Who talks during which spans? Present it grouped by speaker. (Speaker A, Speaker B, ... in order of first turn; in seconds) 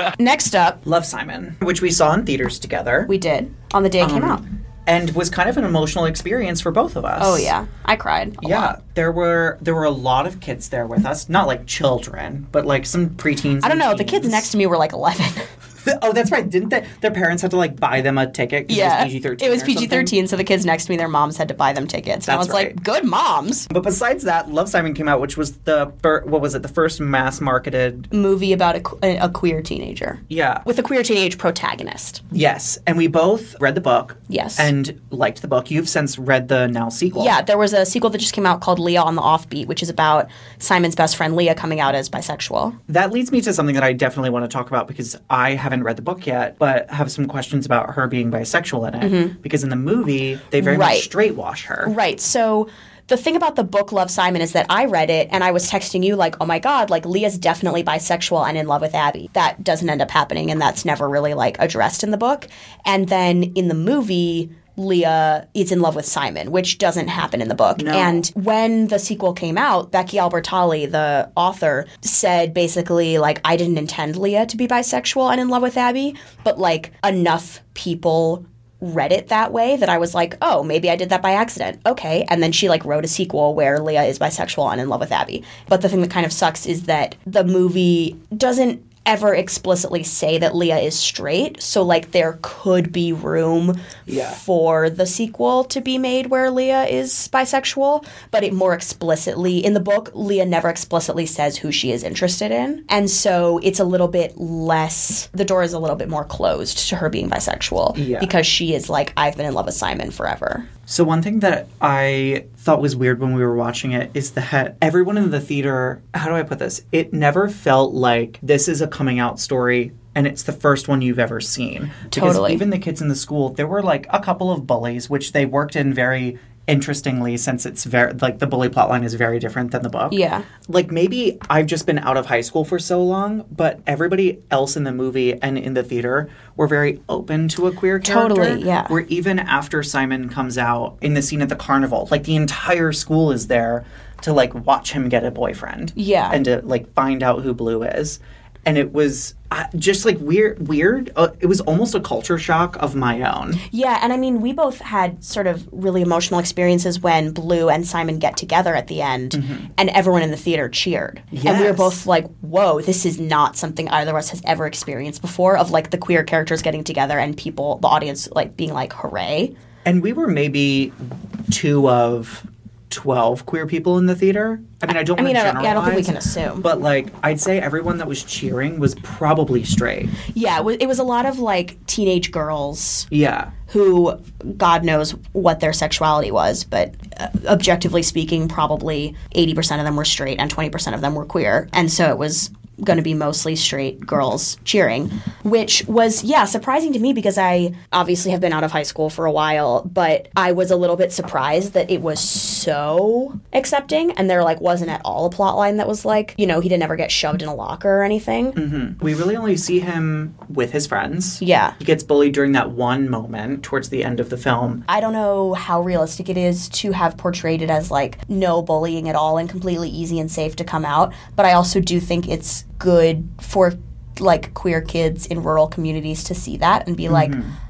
Speaker A: 0.2-0.8, 3.1-4.4, 7.2-8.8, 13.6-15.5, 18.7-23.7, 28.1-32.2, 34.3-34.7, 37.1-42.8, 49.0-49.3, 50.6-51.1, 51.8-110.7, 122.1-122.6, 130.1-130.5, 138.0-139.0, 145.9-146.4, 153.7-169.5, 174.9-176.7, 180.3-183.1, 183.7-208.6, 211.4-211.8, 214.9-227.4
Speaker B: 0.8-3.1, 4.0-7.5, 8.4-14.5, 15.8-20.1, 22.3-22.8, 23.7-28.1, 30.3-30.6, 32.3-37.4, 42.9-51.9, 67.8-68.2, 94.1-94.4, 107.9-108.3, 110.9-153.6, 159.3-159.7, 161.3-162.0, 169.8-180.1, 183.1-183.5, 208.6-214.8, 227.1-227.6